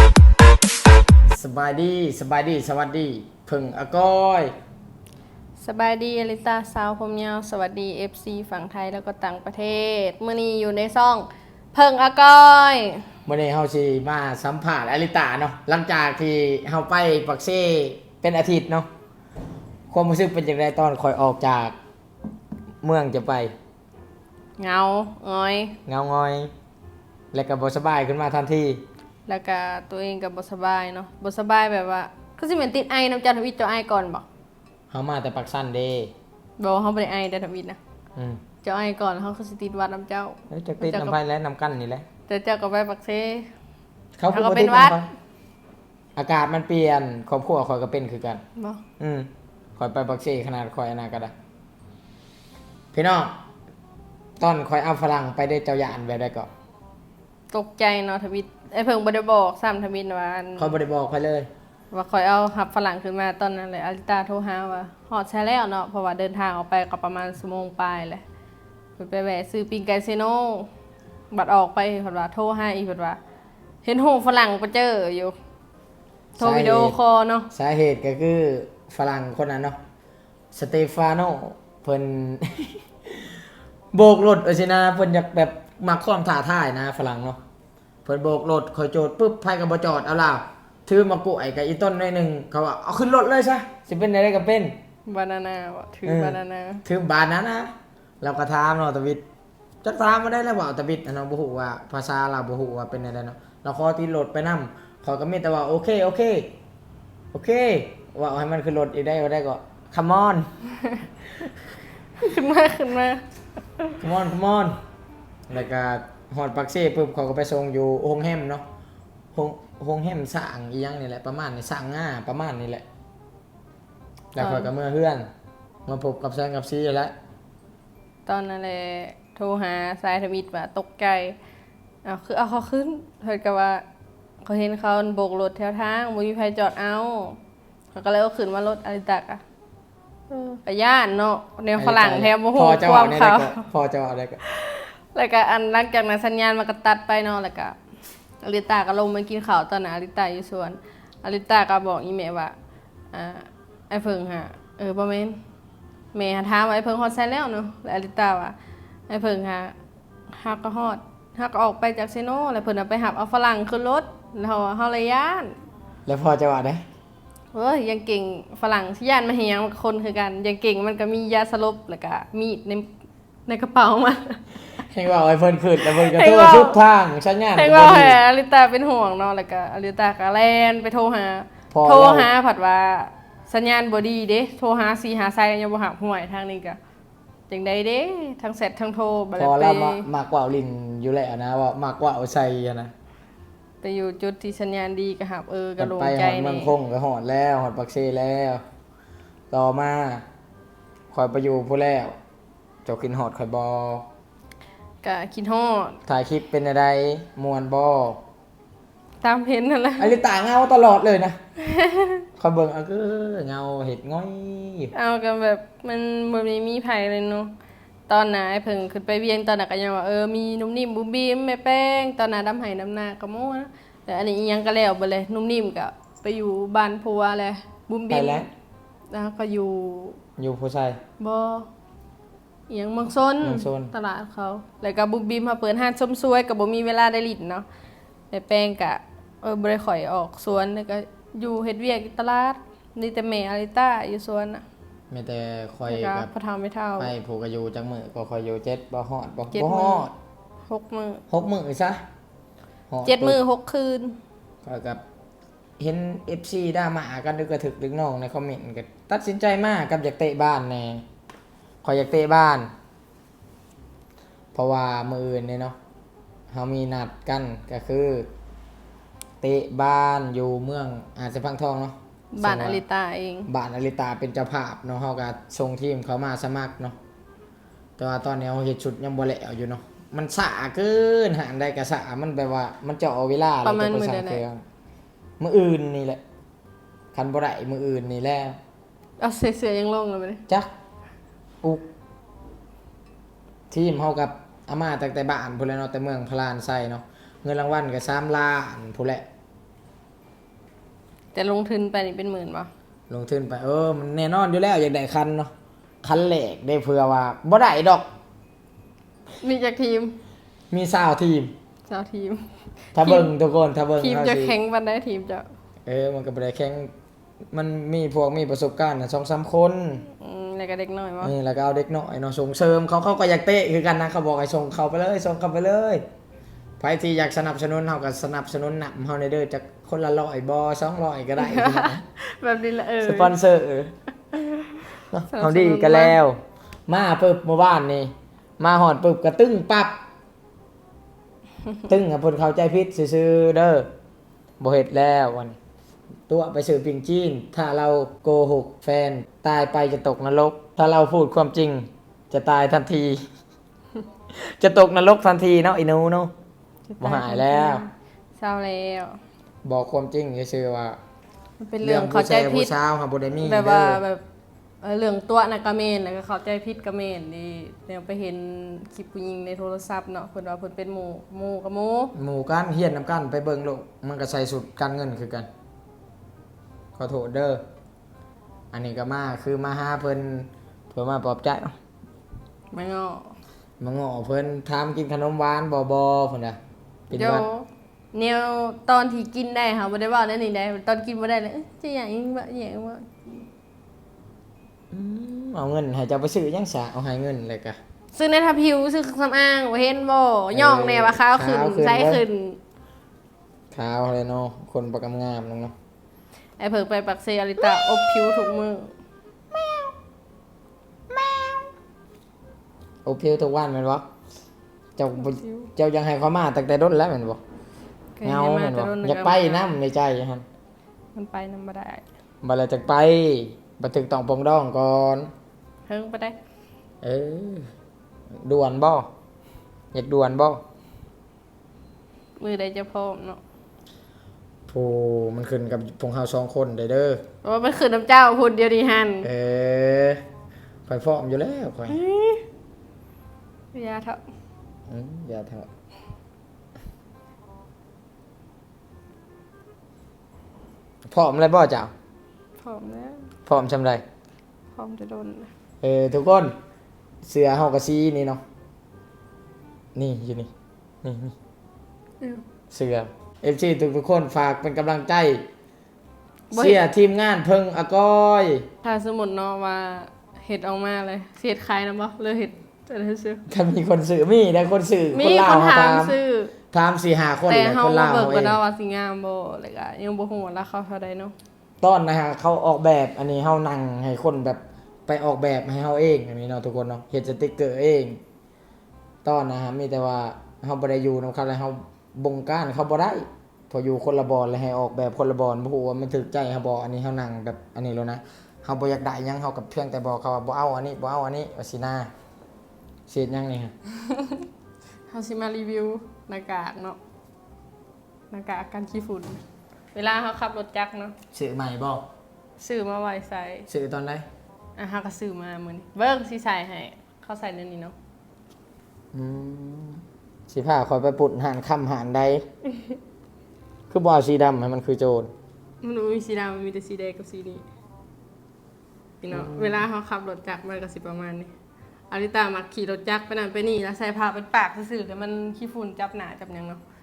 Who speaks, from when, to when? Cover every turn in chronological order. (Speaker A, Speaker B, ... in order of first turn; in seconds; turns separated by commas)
Speaker A: 1.3-4.5, Speaker B: 5.6-13.0, Speaker A: 13.3-18.9, Speaker A: 19.9-21.8, Speaker A: 22.8-23.5, Speaker B: 24.6-25.8, Speaker A: 25.9-26.5, Speaker A: 27.3-28.8, Speaker B: 29.3-34.3, Speaker A: 34.9-36.1, Speaker B: 36.6-37.8, Speaker A: 38.2-38.4, Speaker B: 38.6-41.2, Speaker A: 40.5-42.1, Speaker B: 42.3-43.5, Speaker A: 44.2-45.1, Speaker B: 44.3-45.0, Speaker A: 46.2-48.4, Speaker B: 48.6-48.8, Speaker A: 49.0-51.3, Speaker A: 52.9-53.4, Speaker A: 54.4-56.5, Speaker B: 57.5-60.8, Speaker A: 60.6-61.5, Speaker B: 61.9-68.2, Speaker B: 69.0-70.7, Speaker B: 71.3-73.2, Speaker B: 73.8-75.3, Speaker B: 76.4-77.5, Speaker A: 76.4-77.0, Speaker A: 77.5-79.8, Speaker A: 80.5-87.4, Speaker A: 88.0-94.8, Speaker B: 95.1-96.8, Speaker A: 96.0-99.2, Speaker A: 99.8-106.5, Speaker A: 107.3-110.5, Speaker B: 112.2-113.2, Speaker A: 114.0-114.8, Speaker A: 115.5-118.7, Speaker A: 119.3-122.8, Speaker A: 124.3-125.3, Speaker B: 124.4-124.7, Speaker A: 125.9-127.2, Speaker B: 128.3-131.4, Speaker B: 132.1-133.8, Speaker B: 134.4-137.4, Speaker B: 137.9-139.4, Speaker B: 140.3-143.6, Speaker A: 141.8-144.4, Speaker B: 144.5-147.8, Speaker B: 148.4-152.6, Speaker B: 153.1-155.4, Speaker B: 156.1-158.6, Speaker B: 159.1-159.7, Speaker B: 160.3-165.6, Speaker A: 166.1-166.8, Speaker B: 167.5-172.9, Speaker B: 173.5-174.4, Speaker A: 174.8-178.2, Speaker B: 175.8-176.8, Speaker B: 177.6-186.8, Speaker A: 181.7-182.3, Speaker B: 187.5-190.1, Speaker A: 189.3-192.9, Speaker B: 193.8-196.7, Speaker A: 195.8-198.6, Speaker A: 199.5-200.2, Speaker A: 201.1-202.2, Speaker A: 202.8-204.1, Speaker B: 205.0-206.0, Speaker A: 206.1-208.2, Speaker B: 209.2-210.1, Speaker A: 210.0-211.4, Speaker B: 211.6-212.3, Speaker A: 212.4-214.9, Speaker B: 214.9-217.5, Speaker B: 218.1-228.5, Speaker A: 228.1-228.5, Speaker B: 229.1-230.2, Speaker A: 230.4-231.0, Speaker B: 231.2-231.7, Speaker B: 232.7-237.7, Speaker A: 233.4-233.9, Speaker B: 238.3-244.6, Speaker A: 245.1-246.3, Speaker B: 245.9-247.1, Speaker A: 247.0-250.1, Speaker B: 249.5-250.1, Speaker B: 250.7-251.2, Speaker A: 251.3-252.0, Speaker A: 252.9-253.4, Speaker B: 253.1-254.2, Speaker A: 254.6-255.0, Speaker A: 255.8-261.0, Speaker A: 261.8-262.7, Speaker A: 264.5-265.8, Speaker A: 266.5-268.3, Speaker A: 269.4-272.8, Speaker B: 272.3-273.5, Speaker A: 273.5-277.0, Speaker A: 278.0-284.6, Speaker B: 283.6-284.4, Speaker A: 285.4-286.2, Speaker A: 287.1-288.6, Speaker B: 289.2-290.4, Speaker A: 293.7-299.3, Speaker B: 301.4-302.7, Speaker A: 303.1-308.1, Speaker B: 309.4-310.2, Speaker A: 310.7-311.5, Speaker B: 311.9-313.3, Speaker A: 312.9-314.6, Speaker B: 314.0-315.5, Speaker A: 315.9-316.9, Speaker A: 317.5-320.1, Speaker B: 320.2-321.3, Speaker A: 321.2-326.1, Speaker A: 326.8-332.0, Speaker B: 331.4-333.3, Speaker A: 333.0-333.9, Speaker B: 334.3-334.7, Speaker A: 335.1-340.0, Speaker B: 335.3-336.2, Speaker A: 341.9-343.9, Speaker A: 344.6-345.6, Speaker A: 346.3-353.2, Speaker A: 354.3-356.3, Speaker B: 356.9-359.2, Speaker A: 357.0-357.8, Speaker A: 359.6-361.0, Speaker B: 361.6-362.7, Speaker A: 361.8-364.0, Speaker B: 363.4-364.2, Speaker B: 364.8-372.1, Speaker A: 372.1-375.5, Speaker A: 377.0-377.6, Speaker A: 378.7-381.8, Speaker B: 382.7-383.4, Speaker A: 383.8-387.4, Speaker B: 387.1-393.1, Speaker A: 394.9-397.8, Speaker B: 398.1-402.6, Speaker A: 400.5-402.2, Speaker A: 403.7-405.8, Speaker B: 406.6-408.9, Speaker A: 407.6-408.5, Speaker A: 409.5-409.9, Speaker A: 411.1-411.7, Speaker A: 413.1-414.1, Speaker A: 415.0-417.4, Speaker B: 415.2-415.7, Speaker B: 418.2-419.7, Speaker A: 418.2-420.4, Speaker B: 421.1-422.1, Speaker A: 422.4-425.3, Speaker B: 425.9-426.4, Speaker A: 427.0-427.7, Speaker A: 428.3-429.1, Speaker A: 429.9-430.6, Speaker B: 432.4-433.4, Speaker A: 434.7-437.3, Speaker B: 437.4-439.3, Speaker A: 439.2-440.2, Speaker A: 440.9-442.0, Speaker B: 441.9-442.4, Speaker B: 443.7-444.2, Speaker A: 444.9-445.7, Speaker A: 451.1-451.9, Speaker B: 452.6-453.3, Speaker A: 453.5-454.0, Speaker B: 454.8-455.5, Speaker A: 455.8-456.6, Speaker A: 457.2-458.4, Speaker A: 459.9-460.5, Speaker A: 461.0-461.3, Speaker A: 462.7-465.5, Speaker B: 466.5-466.8, Speaker A: 466.5-468.7, Speaker B: 468.8-473.4, Speaker A: 473.5-476.2, Speaker B: 475.1-476.5, Speaker A: 476.7-478.6, Speaker B: 477.5-481.3, Speaker A: 481.8-488.2, Speaker A: 489.2-502.1, Speaker A: 503.1-503.8, Speaker B: 504.1-504.4, Speaker B: 505.1-507.0, Speaker B: 508.3-509.4, Speaker B: 509.9-511.1, Speaker A: 511.3-512.1, Speaker B: 512.6-513.7, Speaker A: 513.7-514.3, Speaker B: 514.8-518.0, Speaker A: 519.1-522.5, Speaker A: 523.9-525.3, Speaker B: 525.8-527.6, Speaker B: 529.2-531.5, Speaker A: 529.3-529.9, Speaker B: 532.1-536.8